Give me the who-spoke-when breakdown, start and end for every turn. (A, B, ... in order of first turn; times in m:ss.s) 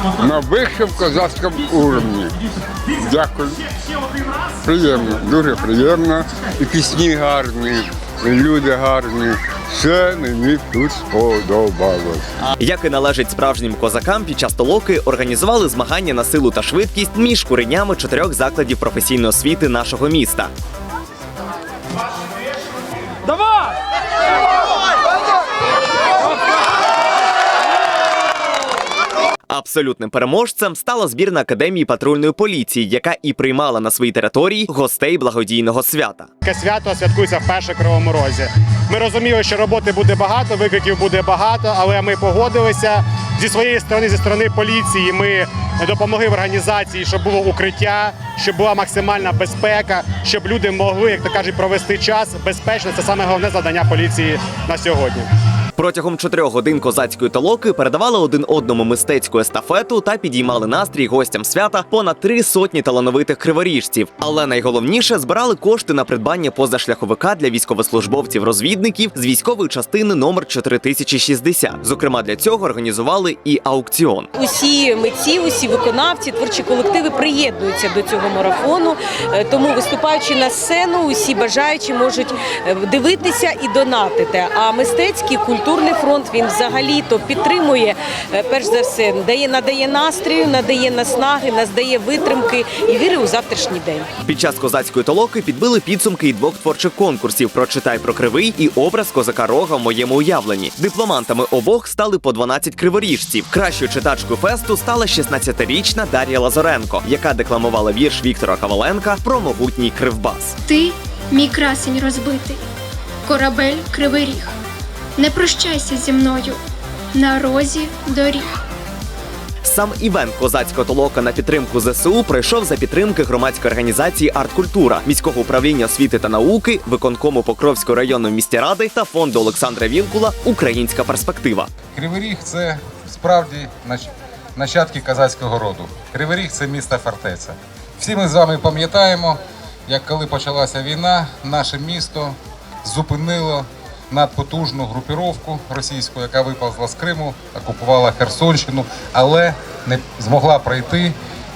0:00.2-0:02.3 A
0:03.0-0:03.6 A
0:04.6-0:12.2 A
0:12.6-0:20.5 B
0:29.5-0:36.3 B
0:36.4-0:55.3 C
0:55.8-1:14.3 B
1:14.4-1:34.1 D
1:34.2-1:50.6 B
1:50.7-1:52.6 E
1:53.3-1:54.5 E
1:55.2-1:56.6 E
1:57.1-1:58.5 E
1:59.6-2:11.7 B
2:11.9-2:31.1 F